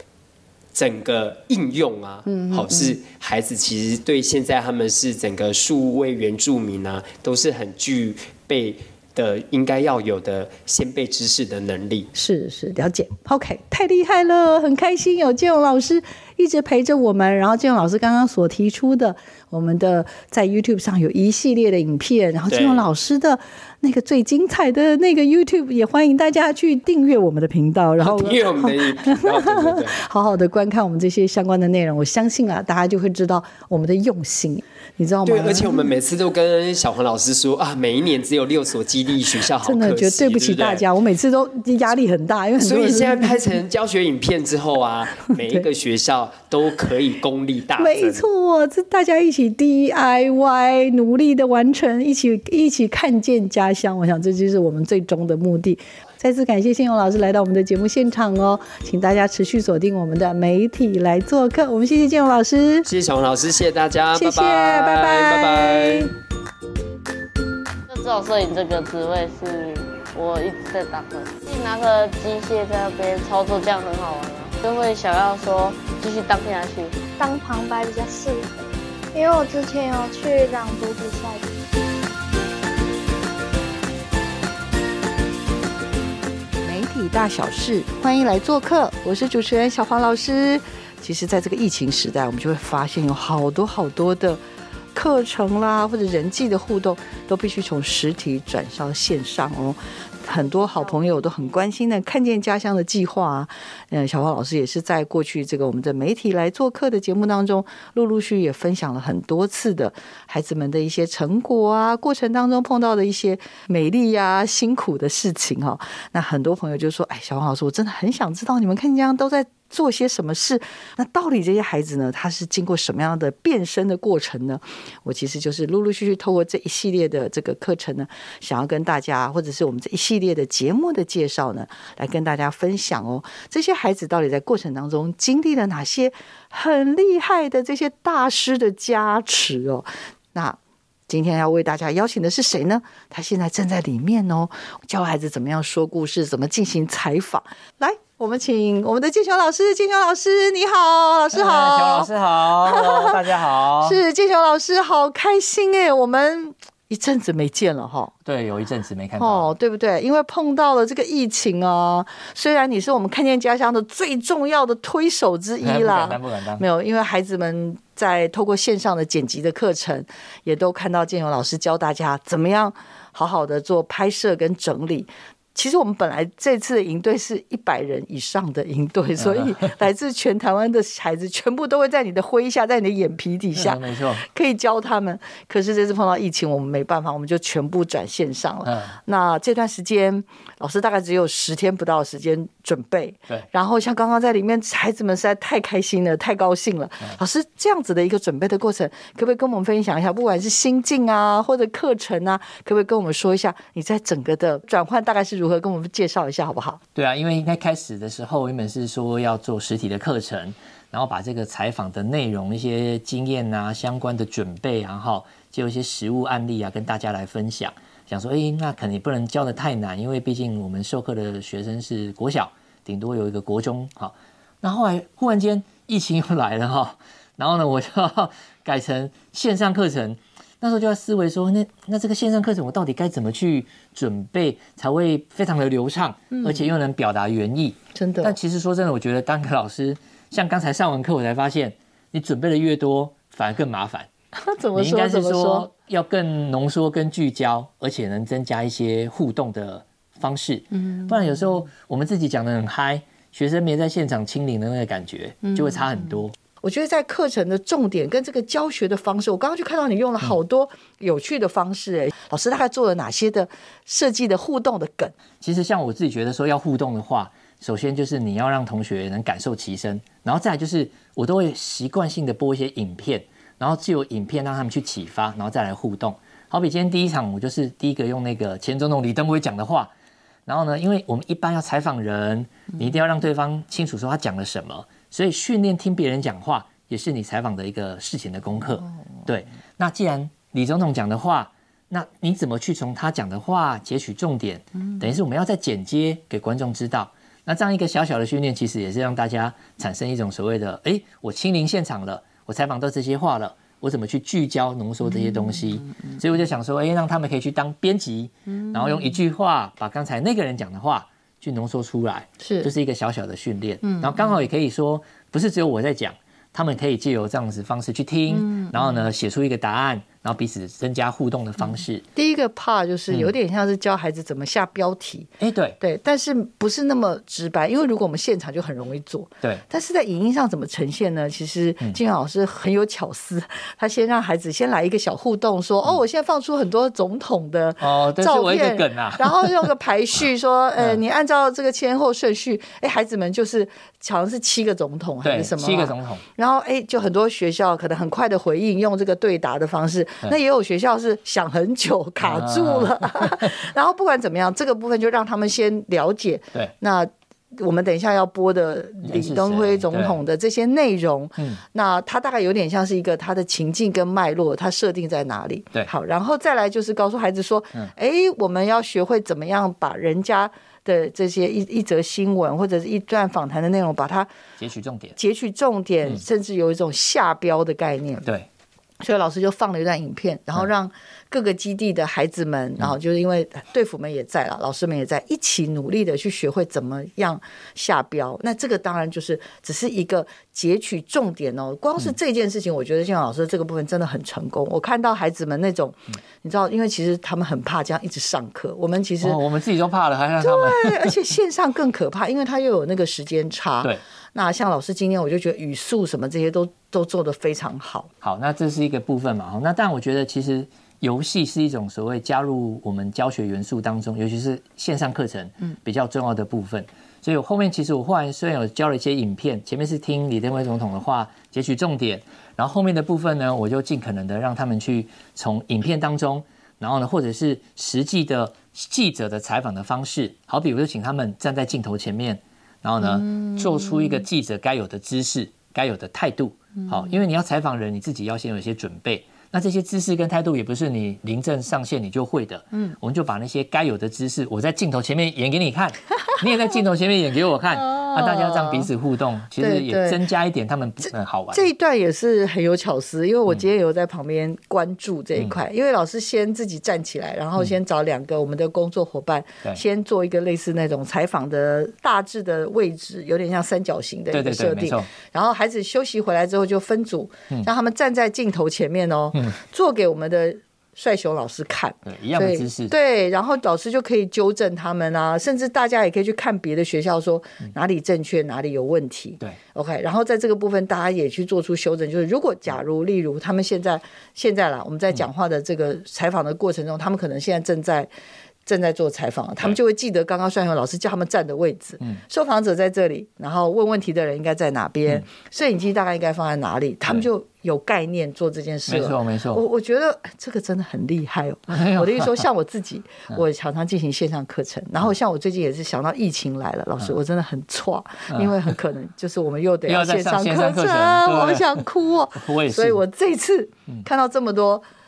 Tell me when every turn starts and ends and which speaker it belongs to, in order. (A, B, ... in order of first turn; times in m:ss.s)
0:00.7-0:12.1 A
0:02.3-0:03.0 B
0:12.2-0:35.9 B
0:22.5-0:22.9 A
0:28.0-0:30.0 A
0:35.3-0:40.8 A
0:39.6-0:43.4 B
0:42.6-0:48.3 A
0:47.8-1:02.9 B
1:02.9-1:06.1 A
1:04.2-1:06.1 B
1:07.9-1:17.0 C
1:17.2-1:21.4 D
1:26.6-1:34.4 B
1:35.0-2:20.6 B
2:21.1-2:32.1 B
2:31.3-2:34.0 E
2:32.6-2:33.1 B
2:33.8-2:38.1 B
2:38.2-2:39.5 E
2:39.2-3:26.8 B
2:45.6-2:46.6 E
2:59.2-2:59.7 E
3:03.5-3:04.3 E
3:08.6-3:09.0 E
3:27.0-4:04.1 E
3:58.0-3:58.4 B
4:04.5-4:05.7 B
4:04.8-4:16.4 E
4:16.6-4:25.1 B
4:25.4-4:39.9 E
4:40.5-5:22.0 E
5:05.3-5:05.6 B
5:12.4-5:12.7 B
5:13.8-5:14.2 B
5:18.3-5:18.9 B
5:22.2-6:14.3 B
5:25.4-5:25.8 E
5:37.8-5:39.7 E
5:45.2-5:46.2 E
5:52.2-5:53.6 E
5:59.0-6:00.2 E
6:14.6-6:15.2 E
6:15.2-6:18.3 B
6:19.0-6:39.4 B
6:39.2-6:41.2 E
6:40.4-6:48.1 B
6:48.2-7:31.7 E
7:27.9-7:28.9 B
7:29.6-7:30.2 B
7:31.5-8:08.1 B
7:44.3-7:45.1 E
7:52.1-7:52.9 E
8:08.7-8:34.8 B
8:18.9-8:19.6 E
8:21.7-8:22.4 E
8:28.3-8:28.6 E
8:29.9-8:31.8 E
8:32.4-8:33.0 E